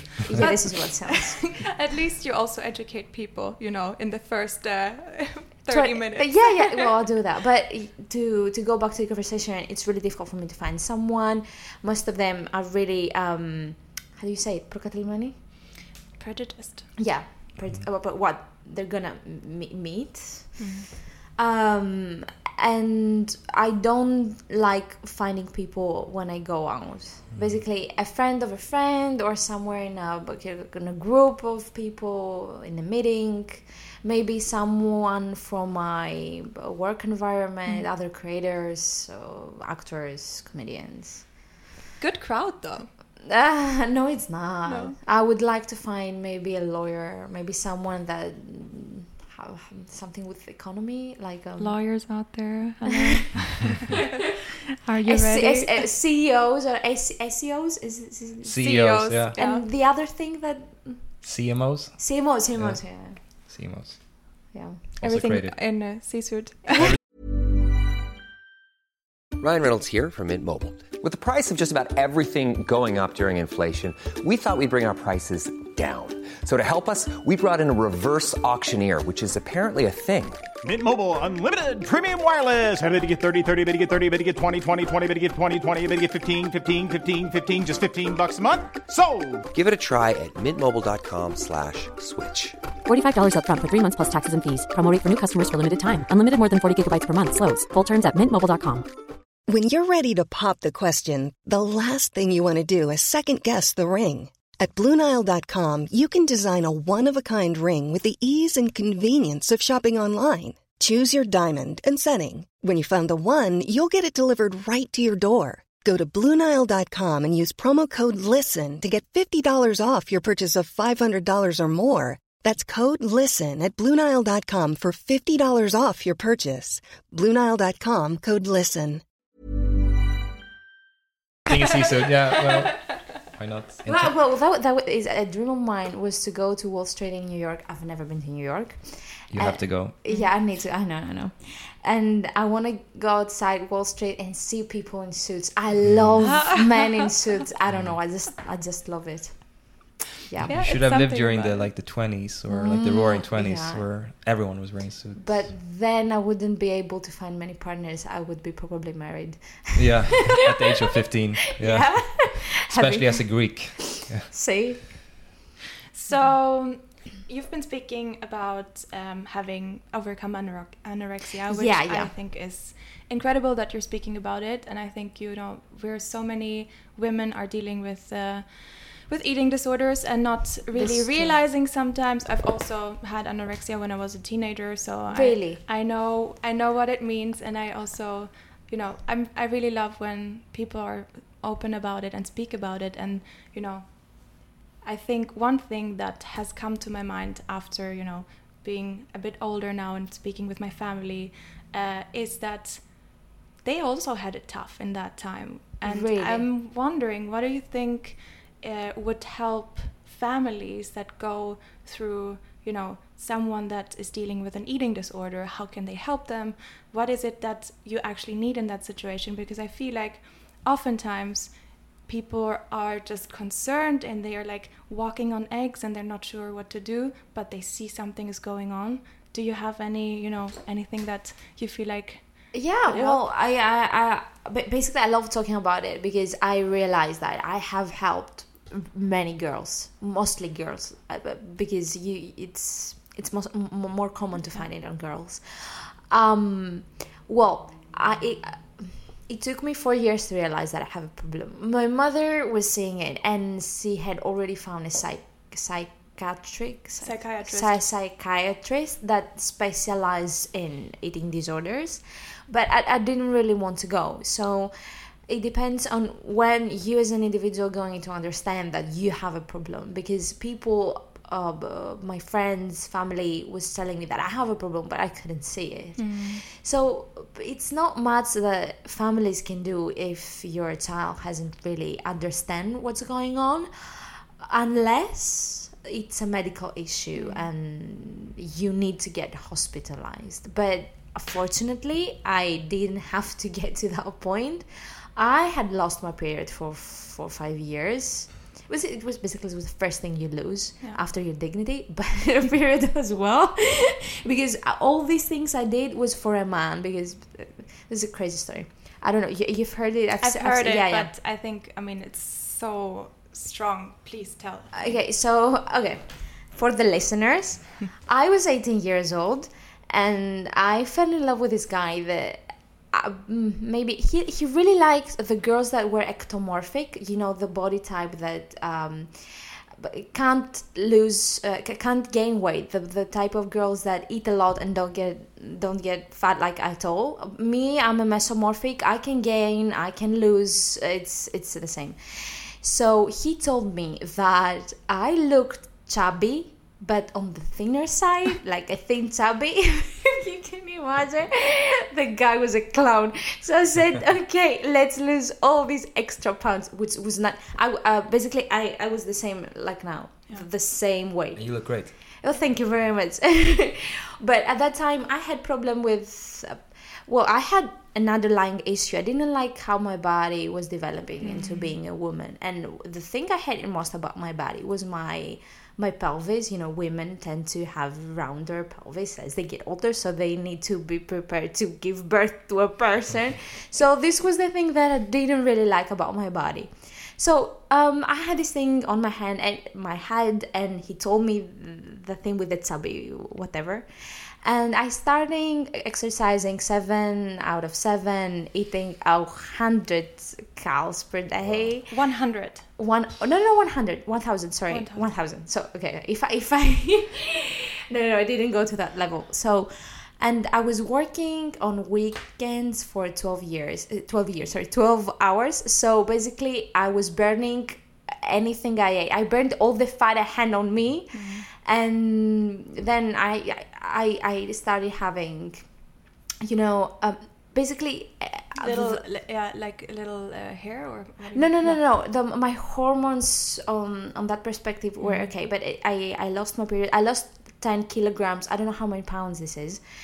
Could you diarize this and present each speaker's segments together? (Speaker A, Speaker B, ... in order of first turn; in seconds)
Speaker A: 0.3-1.5, 5.7-15.3, 17.0-20.7, 21.4-41.4, 43.3-52.0, 55.0-61.2, 62.0-63.4, 64.5-65.1, 133.8-150.6, 152.5-153.9, 155.2-160.7, 161.5-164.9, 171.5-172.1, 180.7-181.4, 185.1-185.6, 205.8-206.5, 232.5-264.7, 265.3-311.1, 314.7-393.9, 394.4-429.0, 431.3-439.8
Speaker B: 0.3-0.6, 17.6-17.9, 27.3-27.6, 58.4-59.4, 61.2-64.4, 65.0-66.0, 131.5-134.2, 139.3-140.0, 145.8-146.4, 147.7-148.0, 150.3-155.5, 159.8-164.3, 361.3-361.9, 401.4-401.8
Speaker C: 0.4-6.7, 16.2-16.9, 20.6-20.9, 42.0-42.9, 44.6-45.0, 51.6-54.0, 54.8-55.8, 58.6-59.6, 65.0-66.8, 140.1-140.3, 150.5-151.7, 165.9-233.2, 244.4-244.6, 257.0-257.8, 276.0-276.4, 287.1-287.5, 310.2-315.0, 371.2-371.7, 401.9-402.7, 404.7-405.1, 421.1-421.4, 428.6-431.8, 435.0-435.3
Speaker D: 69.4-80.4, 89.5-92.6
Speaker E: 80.6-89.5
Speaker F: 92.8-98.9
Speaker G: 99.5-129.0